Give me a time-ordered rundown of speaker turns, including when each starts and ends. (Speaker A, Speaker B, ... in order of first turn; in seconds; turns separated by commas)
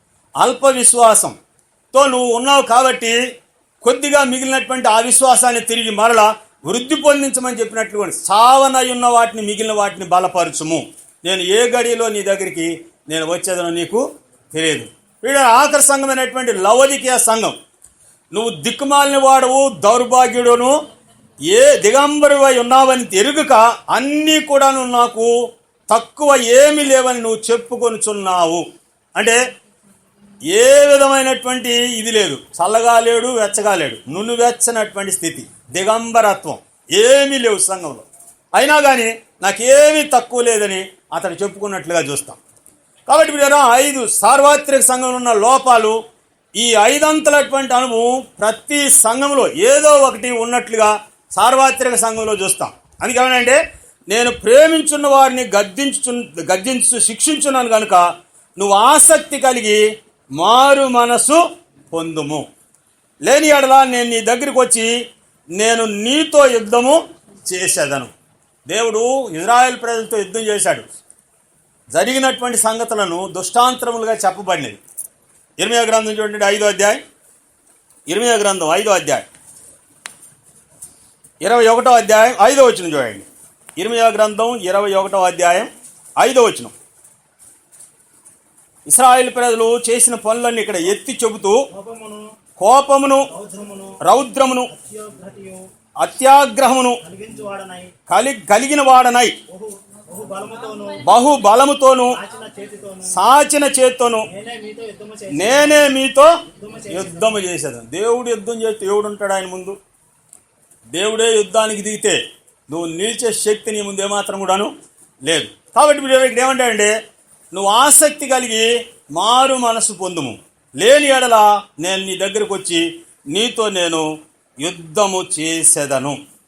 Speaker A: 0.4-1.4, Speaker A: 1.9-3.2, Speaker A: 3.8-17.6, Speaker A: 18.3-20.8, Speaker A: 21.5-25.4, Speaker A: 25.9-28.6, Speaker A: 29.2-29.4, Speaker A: 30.5-42.4, Speaker A: 43.1-46.0, Speaker A: 46.6-59.9, Speaker A: 60.4-62.5, Speaker A: 63.2-64.9, Speaker A: 65.6-68.1, Speaker A: 68.7-70.8, Speaker A: 71.9-74.8, Speaker A: 75.6-77.0, Speaker A: 78.1-79.2, Speaker A: 81.4-83.2, Speaker A: 83.8-86.7, Speaker A: 88.9-91.6, Speaker B: 91.7-92.2, Speaker A: 92.6-93.3, Speaker B: 93.3-94.0, Speaker A: 94.0-94.7, Speaker B: 94.7-95.6, Speaker A: 96.0-97.0, Speaker B: 97.0-97.9, Speaker A: 98.1-99.4, Speaker B: 99.5-101.0, Speaker A: 101.0-102.2, Speaker B: 102.1-103.2, Speaker A: 103.1-104.3, Speaker B: 104.3-105.9, Speaker A: 105.3-106.3, Speaker B: 106.5-107.4, Speaker A: 106.9-109.8, Speaker A: 110.9-114.7, Speaker A: 115.2-117.0, Speaker A: 117.5-124.1, Speaker A: 124.6-126.2